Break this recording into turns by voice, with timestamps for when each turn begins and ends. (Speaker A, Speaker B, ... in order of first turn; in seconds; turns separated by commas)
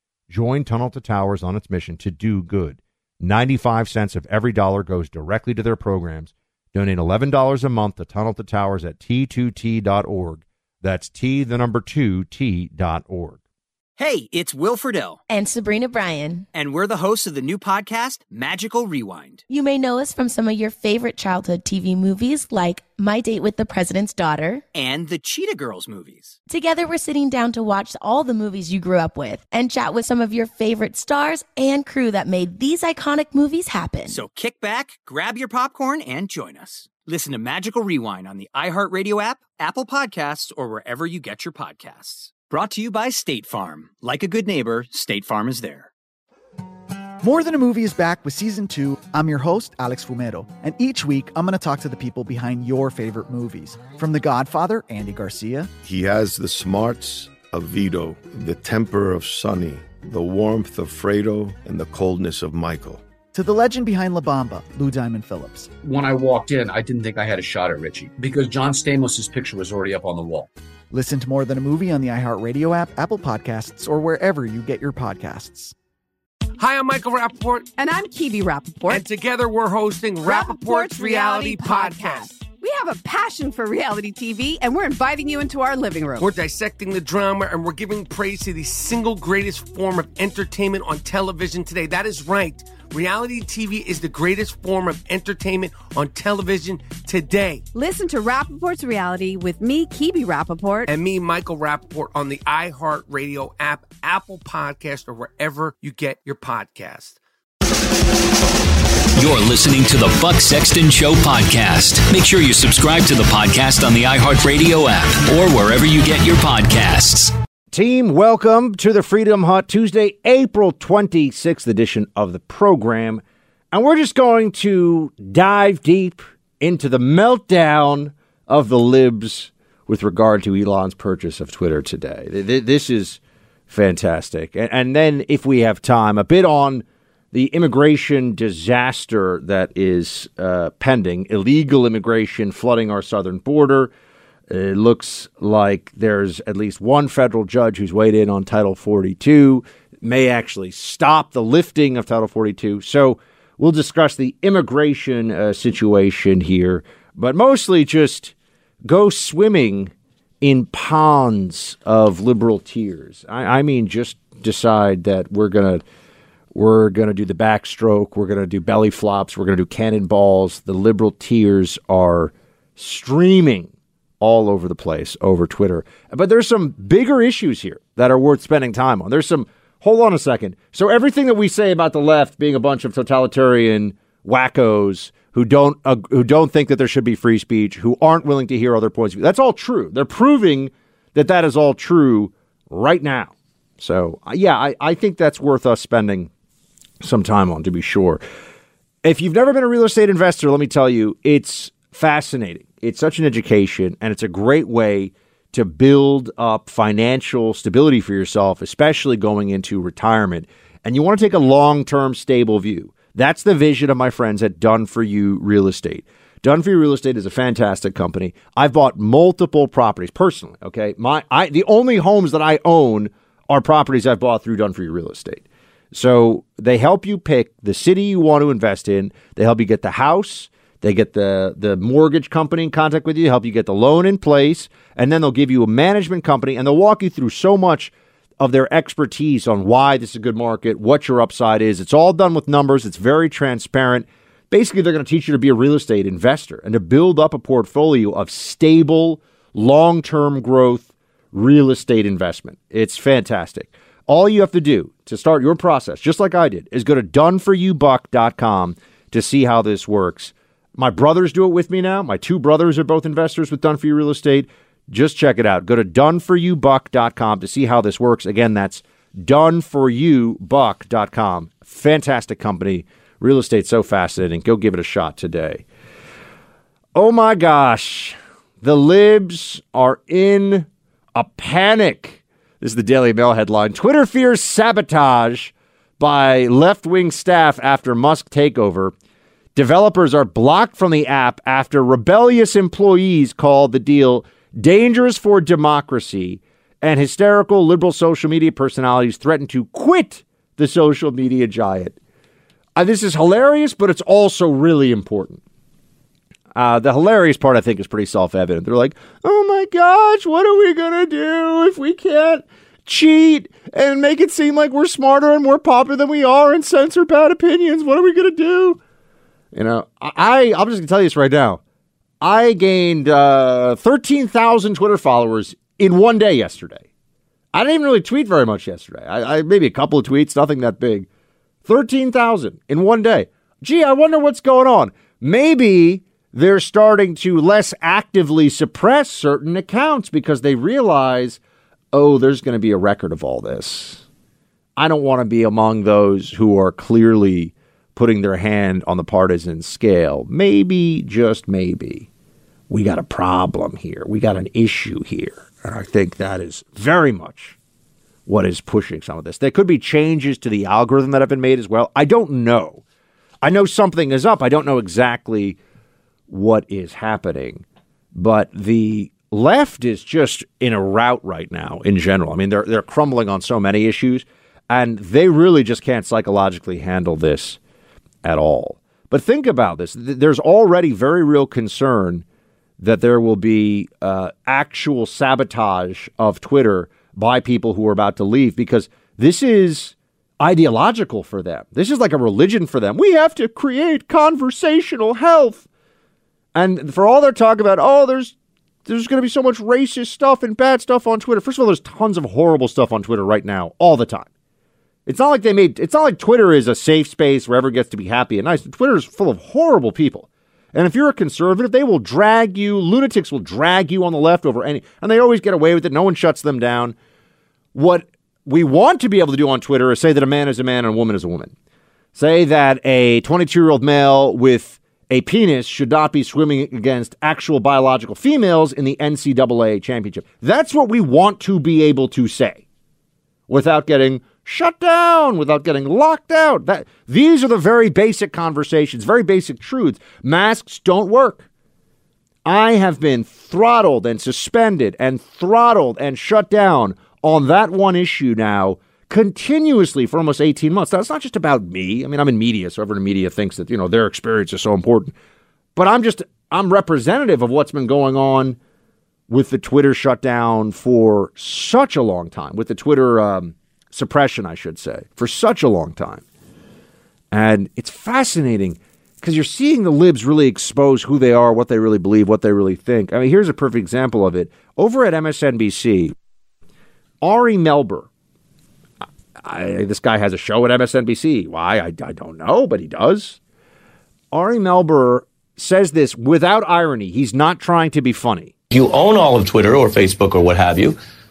Speaker A: 0.3-13.4, Speaker B: 14.0-15.2, Speaker C: 15.3-16.4, Speaker B: 16.5-19.4, Speaker C: 19.5-24.6, Speaker B: 24.7-26.3, Speaker C: 26.4-34.2, Speaker B: 34.1-45.9, Speaker D: 47.2-55.7, Speaker E: 55.8-63.0, Speaker D: 63.3-65.7, Speaker F: 65.8-70.5, Speaker D: 70.9-75.7, Speaker G: 76.6-77.7, Speaker H: 77.8-79.0, Speaker G: 78.9-82.3, Speaker H: 80.2-86.3, Speaker G: 86.2-97.6, Speaker H: 97.7-100.9, Speaker G: 100.9-107.2, Speaker I: 109.2-117.3, Speaker A: 117.7-143.9, Speaker A: 144.5-158.3, Speaker A: 158.8-165.8, Speaker A: 166.5-196.3, Speaker A: 197.0-198.2, Speaker A: 199.0-275.6, Speaker A: 276.9-288.9, Speaker A: 289.5-301.9, Speaker A: 302.8-305.4, Speaker A: 306.5-318.8, Speaker A: 319.5-321.6, Speaker A: 322.2-326.8, Speaker A: 327.5-331.1, Speaker A: 331.6-341.4, Speaker A: 341.9-344.0, Speaker A: 344.8-352.1, Speaker A: 352.7-357.6, Speaker A: 358.2-362.8, Speaker A: 363.4-365.6, Speaker A: 366.3-367.6, Speaker A: 368.1-377.6, Speaker A: 378.2-382.2, Speaker A: 382.8-395.6, Speaker A: 396.5-398.3, Speaker A: 398.9-404.3, Speaker A: 405.1-416.9, Speaker A: 417.7-421.5, Speaker A: 422.1-432.6, Speaker A: 433.5-441.4, Speaker A: 442.4-455.1, Speaker A: 455.8-458.6, Speaker A: 459.3-466.2, Speaker A: 467.3-476.1, Speaker A: 477.2-478.1, Speaker A: 479.4-483.4, Speaker A: 484.3-488.5, Speaker J: 488.7-491.0